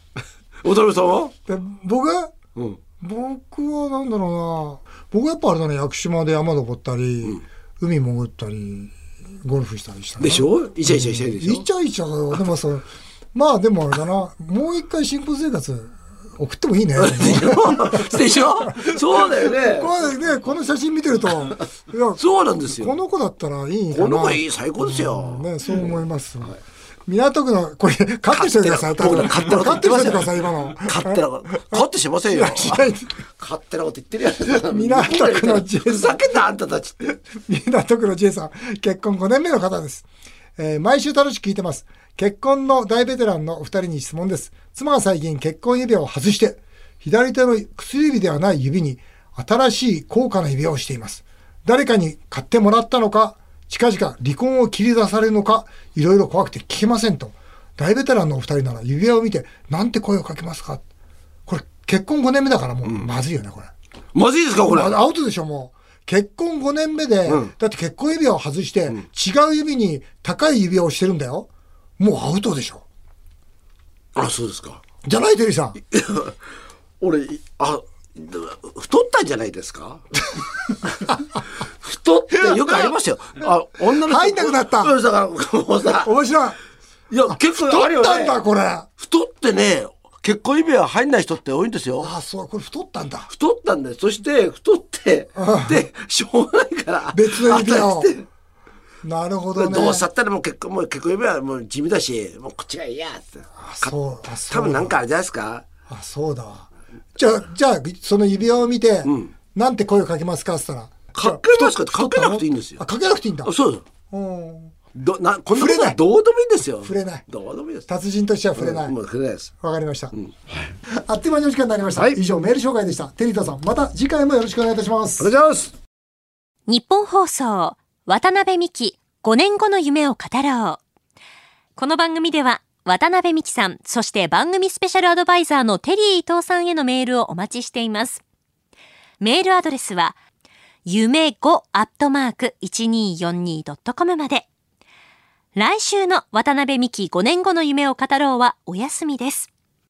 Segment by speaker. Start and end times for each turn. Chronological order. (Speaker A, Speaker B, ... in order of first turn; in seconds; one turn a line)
Speaker A: 0.6-1.3
Speaker B: 1.5-2.3
Speaker A: 2.5-2.8
Speaker B: 3.0-33.2
Speaker A: 10.2-11.7
Speaker A: 17.0-19.9
Speaker A: 22.2-23.0
Speaker A: 23.9-25.9
Speaker A: 28.3-37.0
Speaker B: 34.5-36.3
Speaker B: 37.0-40.1
Speaker B: 40.6-60.8
Speaker B: 61.5-63.7
Speaker A: 62.9-63.1
Speaker A: 64.1-65.0
Speaker B: 64.7-71.5
Speaker A: 67.3-67.5
Speaker B: 72.0-72.8
Speaker A: 74.2-74.8
Speaker B: 75.0-75.8
Speaker A: 75.9-76.4
Speaker A: 77.0-80.0
Speaker A: 81.7-86.1
Speaker B: 83.9-85.0
Speaker B: 86.0-86.6
Speaker A: 87.1-88.4
Speaker B: 87.3-88.9
Speaker A: 89.0-92.1
Speaker B: 92.0-93.3
Speaker A: 93.3-98.3
Speaker B: 95.4-95.8
Speaker B: 97.1-98.1
Speaker B: 99.0-100.1
Speaker A: 99.5-103.9
Speaker B: 103.6-105.0
Speaker A: 104.5-105.7
Speaker B: 105.9-113.5
Speaker A: 109.0-109.3
Speaker A: 111.1-112.8
Speaker A: 113.5-113.8
Speaker B: 114.1-114.8
Speaker A: 114.9-117.9
Speaker B: 115.5-116.0
Speaker B: 116.8-117.2
Speaker B: 117.9-119.0
Speaker A: 118.6-119.5
Speaker B: 119.6-120.1
Speaker A: 120.1-120.8
Speaker B: 120.9-125.3
Speaker A: 125.2-125.7
Speaker C: 126.7-130.8
Speaker C: 131.8-138.2
Speaker C: 139.2-140.2
Speaker C: 140.9-144.5
Speaker C: 145.6-149.5